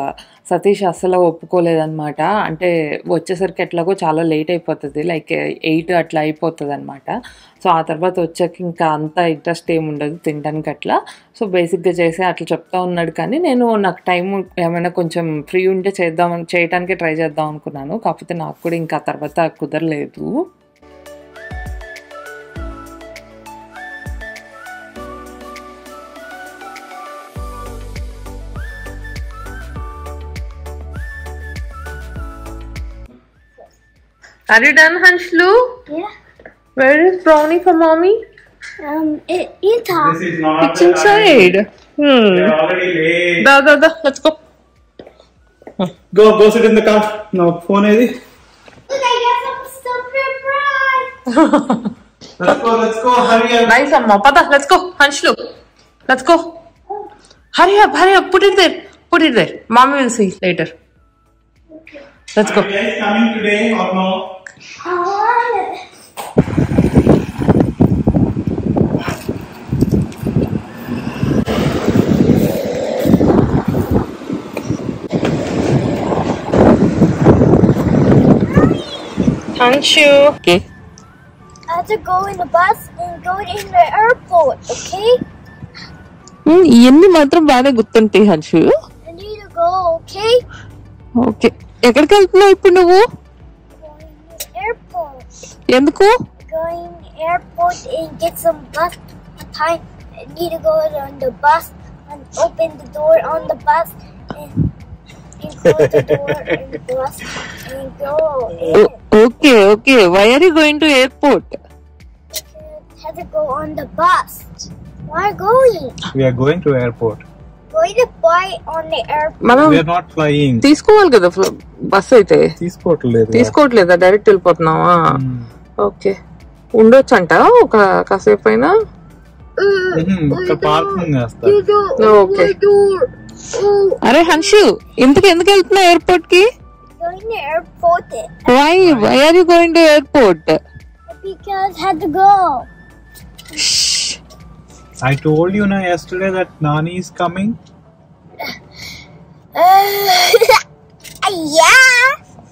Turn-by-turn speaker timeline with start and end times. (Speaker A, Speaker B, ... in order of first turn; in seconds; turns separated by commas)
Speaker A: 0.5-20.3, Speaker A: 34.5-35.6, Speaker A: 36.8-38.2, Speaker B: 38.8-40.2, Speaker C: 39.9-41.5, Speaker A: 40.6-42.5, Speaker C: 42.3-43.4, Speaker A: 43.4-44.4, Speaker C: 46.1-48.1, Speaker B: 48.9-51.1, Speaker A: 51.3-51.9, Speaker C: 52.4-53.7, Speaker A: 53.6-55.4, Speaker A: 56.1-56.5, Speaker A: 57.5-60.7, Speaker A: 62.4-62.7, Speaker C: 62.4-64.1, Speaker B: 64.8-65.8, Speaker B: 78.5-79.2, Speaker A: 79.6-80.6, Speaker B: 81.7-85.2, Speaker A: 86.5-88.7, Speaker B: 89.0-90.4, Speaker A: 91.2-93.0, Speaker B: 93.8-95.3, Speaker A: 95.7-96.2, Speaker B: 96.5-104.6, Speaker B: 105.4-109.0, Speaker C: 105.7-106.4, Speaker A: 108.7-111.5, Speaker B: 112.4-116.0, Speaker C: 116.1-117.2, Speaker B: 117.7-119.6, Speaker A: 119.4-119.8, Speaker C: 119.6-120.7, Speaker A: 120.6-122.5, Speaker C: 122.6-123.5, Speaker A: 123.3-125.1, Speaker C: 125.1-125.5, Speaker A: 125.8-126.1, Speaker A: 126.8-128.7, Speaker B: 129.6-134.6, Speaker C: 129.9-131.6, Speaker A: 132.0-132.6, Speaker A: 134.0-136.5, Speaker B: 137.0-138.6, Speaker A: 138.5-140.6, Speaker C: 138.8-139.2, Speaker B: 141.1-142.7, Speaker A: 143.6-144.2, Speaker C: 145.0-147.6, Speaker B: 149.6-150.6, Speaker B: 151.2-152.2